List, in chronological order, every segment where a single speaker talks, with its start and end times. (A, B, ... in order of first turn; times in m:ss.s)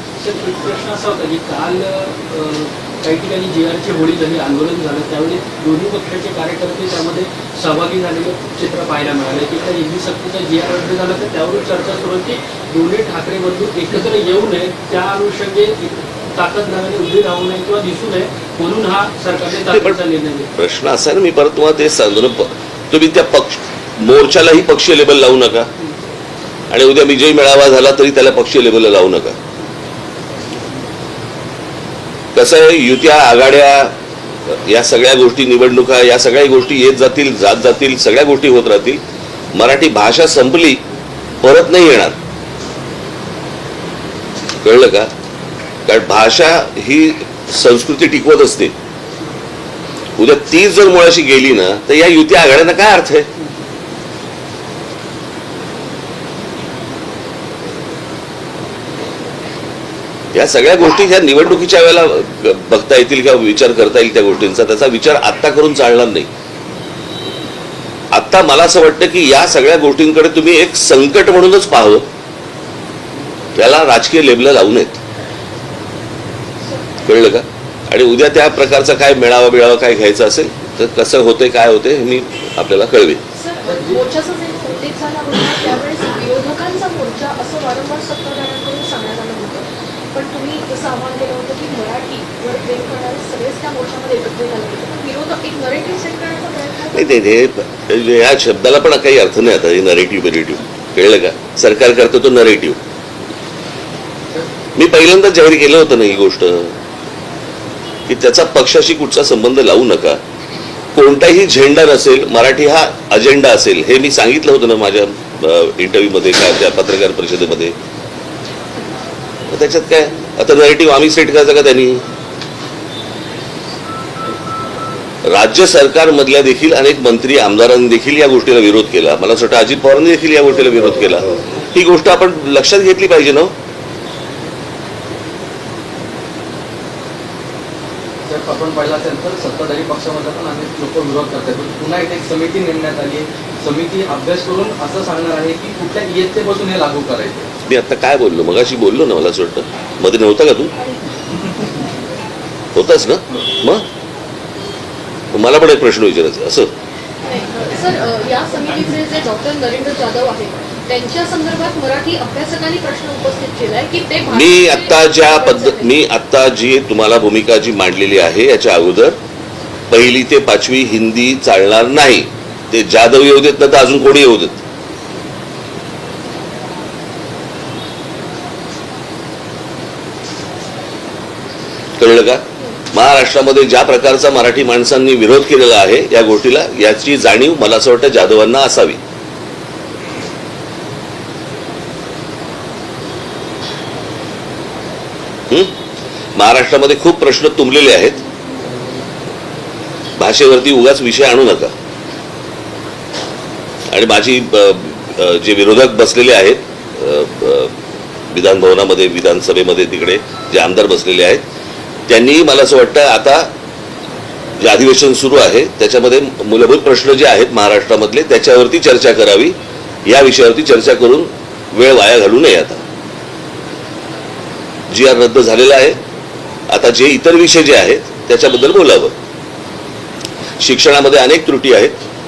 0:00.2-0:20.5 A
0:19.6-0:20.0 B
0:20.6-0:25.7 B
0:26.7-0:29.4 B
0:32.3-0:34.0 B
0:34.5-0:39.0 B
0:39.5-0:40.8 B
0:41.4-0:42.2 B
0:44.6-0:45.1 B
0:45.9-0:48.7 B
0:50.2-0:53.3 B
1:00.3-1:06.3 B
1:08.1-1:12.1 B
1:13.6-1:15.0 B
1:17.0-1:23.2 B
1:23.4-1:37.2 C
1:36.9-1:42.8 B
1:44.8-1:46.8 B
1:48.1-1:50.2 B
1:51.0-1:57.8 B
1:59.5-2:02.1 B
2:05.3-2:13.5 B
2:18.3-2:27.5 D
2:27.7-2:30.7 B
2:30.8-2:31.0 C
2:32.8-2:33.8 B
2:35.3-2:36.7 B
2:37.2-2:45.9 C
2:44.3-2:49.2 B
2:49.9-2:54.6 B
3:02.0-3:09.0 B
3:16.4-3:18.2 B
3:20.2-3:21.7 B
3:23.9-3:27.8 B
3:28.3-3:31.4 B
3:32.1-3:33.5 B
3:34.6-3:42.8 B
3:44.9-3:46.0 B
3:46.7-3:49.1 B
3:50.6-3:52.0 B